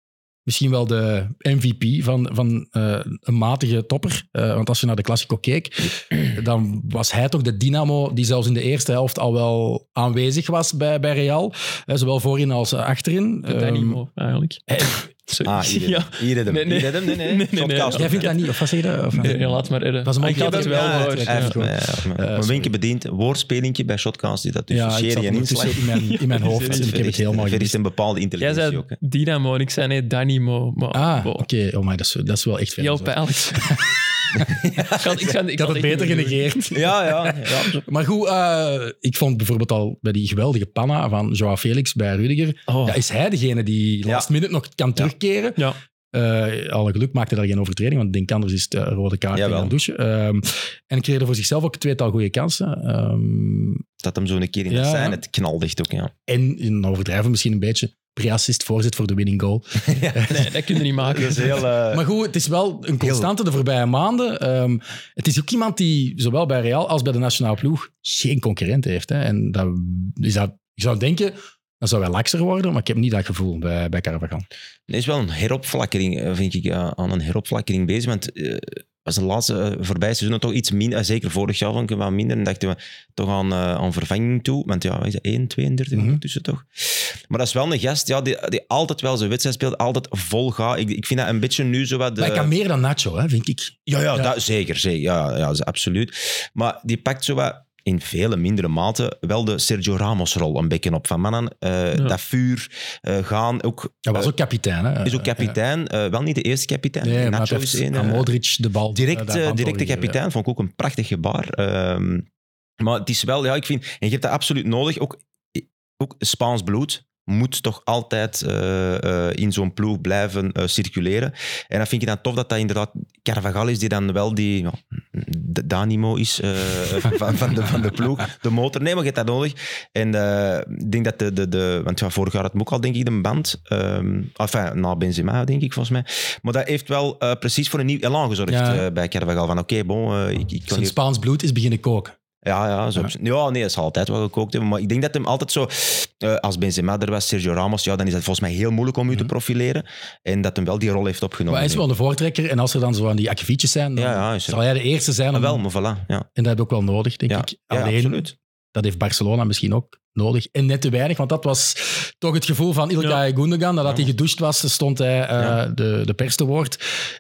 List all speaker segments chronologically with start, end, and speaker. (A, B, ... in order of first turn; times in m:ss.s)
0:00.5-0:14.0 A
0:13.5-0:18.3 B
0:14.7-0:15.0 A
0:15.4-0:18.3 C
0:17.9-0:22.7 A
0:19.2-0:21.6 B
0:20.3-0:25.8 C
0:24.7-0:27.8 A
0:26.0-0:27.0 B
0:26.6-0:29.0 C
0:28.4-0:31.5 B
0:30.9-0:34.6 A
0:32.8-0:33.8 B
0:34.3-0:35.3 C
0:34.8-0:36.9 B
0:35.5-0:45.6 A
0:36.7-0:37.8 C
0:46.1-0:53.8 A
0:49.3-0:49.8 C
0:54.0-0:56.1 C
0:54.7-0:55.2 A
0:56.3-1:00.5 A
0:59.8-1:02.1 C
1:00.3-1:01.7 B
1:01.9-1:14.5 A
1:03.0-1:03.3 C
1:14.9-1:32.5 C
1:25.9-1:26.2 A
1:32.2-1:34.3 A
1:33.9-1:44.3 C
1:44.1-1:45.6 A
1:45.0-1:48.3 C
1:47.0-1:50.2 A
1:48.9-1:52.3 C
1:52.8-2:21.0 C
2:18.5-2:18.9 A
2:20.7-2:22.2 A
2:22.4-2:31.8 C
2:31.5-2:35.6 A
2:34.0-2:34.6 C
2:35.3-2:36.3 C
2:36.4-2:46.8 A
2:37.3-2:38.3 C